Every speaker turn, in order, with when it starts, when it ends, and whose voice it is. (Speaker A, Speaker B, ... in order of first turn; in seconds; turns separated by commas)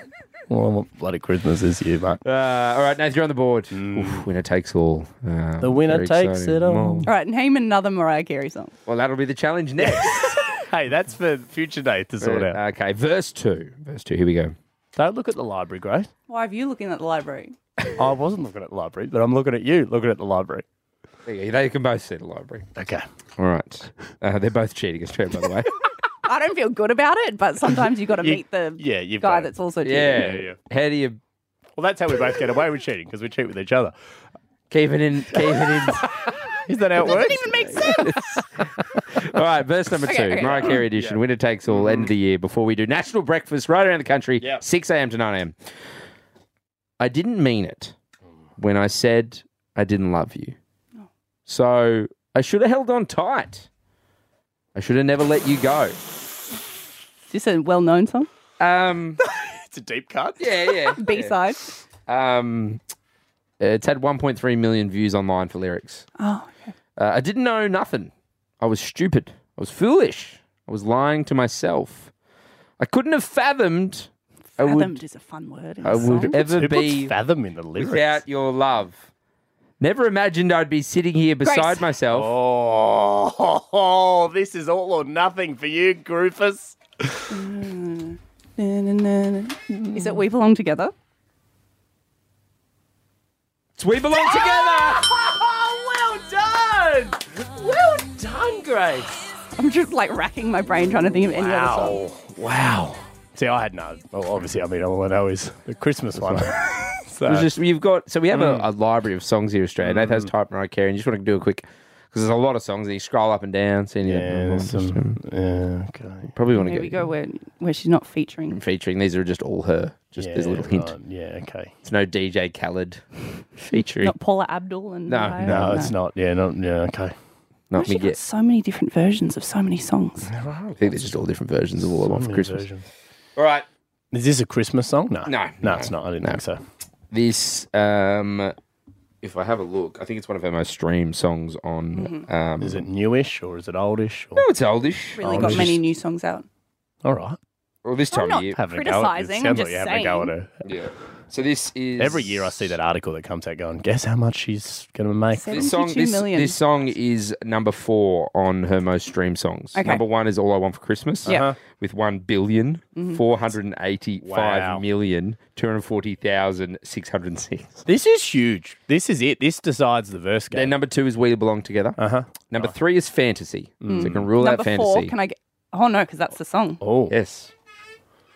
Speaker A: 0.5-2.2, Speaker B: 2.2-7.1, Speaker A: 3.7-4.2, Speaker A: 5.6-7.1, Speaker C: 7.1-8.7, Speaker B: 8.9-10.5, Speaker A: 9.8-12.6, Speaker B: 12.2-14.6, Speaker A: 15.0-16.1, Speaker C: 16.3-17.5, Speaker A: 18.0-20.6, Speaker B: 21.3-22.7, Speaker A: 22.8-23.0, Speaker B: 23.4-25.7, Speaker C: 26.3-30.1, Speaker A: 28.2-30.6, Speaker B: 29.8-31.2, Speaker A: 31.8-33.9, Speaker B: 34.7-36.1, Speaker A: 35.3-38.3, Speaker C: 37.0-38.1, Speaker B: 37.8-38.2, Speaker B: 39.1-45.5, Speaker C: 40.0-40.8, Speaker A: 40.6-42.1, Speaker B: 47.0-48.0, Speaker B: 48.6-50.6, Speaker B: 51.5-53.7, Speaker B: 54.8-56.0, Speaker C: 57.3-58.3, Speaker B: 58.6-59.2, Speaker A: 59.3-60.8, Speaker B: 60.4-61.4, Speaker C: 61.0-61.6, Speaker B: 62.1-62.8, Speaker B: 63.6-66.1, Speaker C: 66.2-66.7, Speaker B: 67.0-72.1, Speaker B: 72.8-75.0, Speaker C: 74.6-76.3, Speaker B: 75.8-77.1, Speaker A: 75.8-78.2, Speaker B: 77.8-79.1, Speaker B: 79.8-82.3, Speaker C: 81.4-81.9, Speaker A: 82.1-86.8, Speaker C: 87.3-90.9, Speaker A: 89.7-90.2, Speaker B: 93.8-95.0, Speaker A: 94.2-99.2, Speaker C: 99.6-102.0, Speaker A: 101.3-107.5, Speaker B: 107.3-115.2, Speaker A: 108.3-108.7, Speaker A: 109.8-110.3, Speaker A: 114.0-116.3, Speaker B: 116.3-117.1, Speaker C: 116.6-118.6, Speaker B: 118.5-120.9, Speaker A: 120.2-121.7, Speaker B: 121.8-123.0, Speaker B: 123.6-124.2, Speaker C: 123.8-126.0, Speaker B: 125.1-125.7, Speaker A: 125.4-127.1, Speaker B: 127.7-128.2, Speaker C: 127.8-130.3, Speaker A: 130.2-131.3, Speaker B: 130.8-132.7, Speaker A: 131.8-132.9, Speaker B: 133.4-133.7, Speaker A: 134.1-136.6, Speaker B: 135.3-136.4, Speaker B: 137.1-138.6, Speaker B: 139.2-142.8, Speaker C: 141.9-142.3, Speaker A: 142.6-144.4, Speaker B: 144.4-145.8, Speaker C: 145.2-146.5, Speaker A: 145.2-145.8, Speaker A: 147.1-147.4, Speaker B: 147.8-148.6, Speaker C: 148.1-150.3, Speaker A: 148.5-150.6, Speaker B: 150.7-152.7, Speaker A: 152.0-155.7, Speaker C: 155.3-156.6, Speaker B: 155.5-167.7, Speaker C: 159.8-160.0, Speaker A: 161.3-161.6, Speaker C: 162.9-163.2, Speaker A: 164.2-164.8, Speaker A: 167.9-170.7, Speaker B: 170.5-172.0, Speaker A: 172.0-172.7, Speaker B: 172.5-175.1, Speaker A: 173.8-174.3, Speaker C: 173.9-176.8, Speaker A: 176.8-177.1, Speaker B: 177.1-177.5